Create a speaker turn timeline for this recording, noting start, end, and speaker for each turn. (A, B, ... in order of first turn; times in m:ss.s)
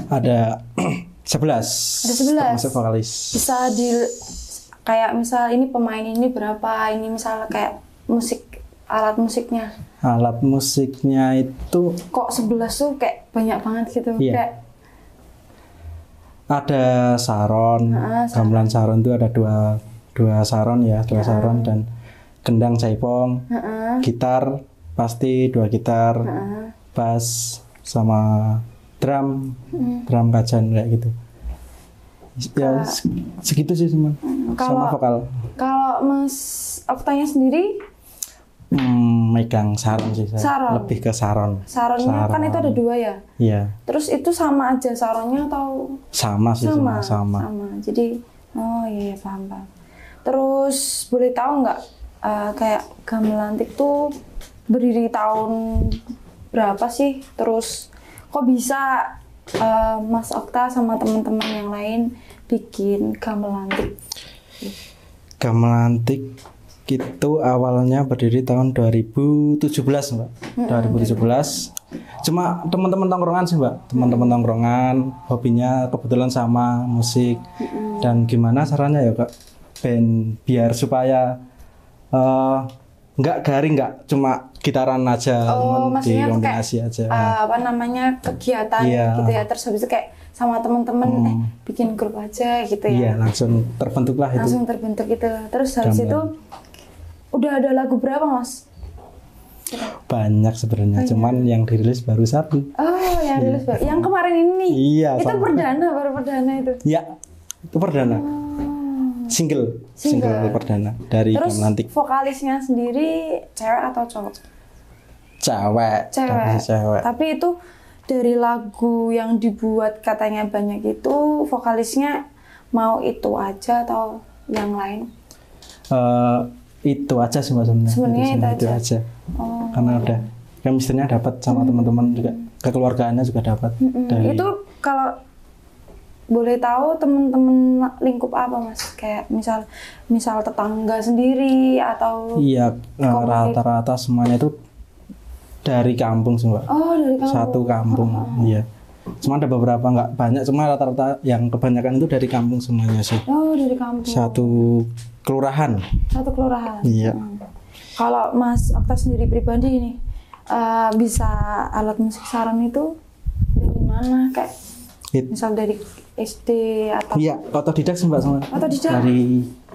0:00.1-0:03.4 A
0:02.0-0:02.8 B
0:03.3-0:09.7 B
0:10.0-0:12.0 A
0:12.1-0:14.6 B
0:16.5-0:21.8 A
0:17.9-0:18.8 B
0:21.1-0:21.8 B
0:22.4-0:23.4 A
0:23.5-0:24.0 B
0:24.0-0:26.3 A
0:26.2-0:26.7 B
0:26.9-0:31.1 A
0:29.7-0:30.0 B
0:32.4-0:35.3 A
0:32.6-0:33.0 B
0:34.2-0:35.0 B
0:35.6-0:37.8 B
0:38.7-0:42.8 A
0:40.4-0:41.0 B
0:41.7-0:43.2 B
0:43.4-0:43.7 A
0:43.9-0:46.0 B
0:46.1-0:47.5 A
0:46.6-0:49.7 B
0:50.2-0:54.1 B
0:54.7-1:03.9 B
1:05.4-1:06.3 A
1:06.9-1:17.4 A
1:10.6-1:11.4 B
1:13.9-1:14.4 B
1:17.6-1:18.3 B
1:18.0-1:19.3 A
1:19.8-1:21.4 A
1:22.1-1:27.4 A
1:25.5-1:33.1 B
1:28.8-1:29.4 A
1:31.0-1:31.5 A
1:32.9-1:34.6 A
1:34.4-1:36.3 B
1:35.8-1:36.2 A
1:37.3-1:38.6 B
1:40.0-1:42.7 A
1:40.9-1:41.5 B
1:42.8-1:46.8 B
1:43.3-1:44.1 A
1:44.7-1:45.7 A
1:47.7-1:48.3 A
1:48.0-1:49.3 B
1:49.3-1:51.9 A
1:50.0-1:50.7 B
1:51.3-1:54.4 B
1:55.4-1:57.1 A
1:56.1-1:57.6 B
1:58.1-2:02.2 B
2:02.7-2:05.0 B
2:05.9-2:09.0 A
2:07.9-2:08.8 B
2:09.4-2:10.2 B
2:09.7-2:14.5 A
2:11.5-2:12.4 B
2:13.8-2:15.1 B
2:16.3-2:22.4 B
2:22.4-2:24.5 A
2:23.0-2:23.6 B
2:25.6-2:26.7 A
2:26.7-2:28.6 B
2:27.2-2:28.6 A
2:29.2-2:33.2 A
2:33.3-2:34.5 B
2:34.0-2:35.8 A
2:36.1-2:37.4 B
2:36.8-2:37.2 A
2:38.0-2:40.0 B
2:40.5-2:42.9 B
2:43.6-2:44.5 B
2:45.3-2:47.4 B
2:47.1-2:49.5 A
2:48.5-2:49.1 B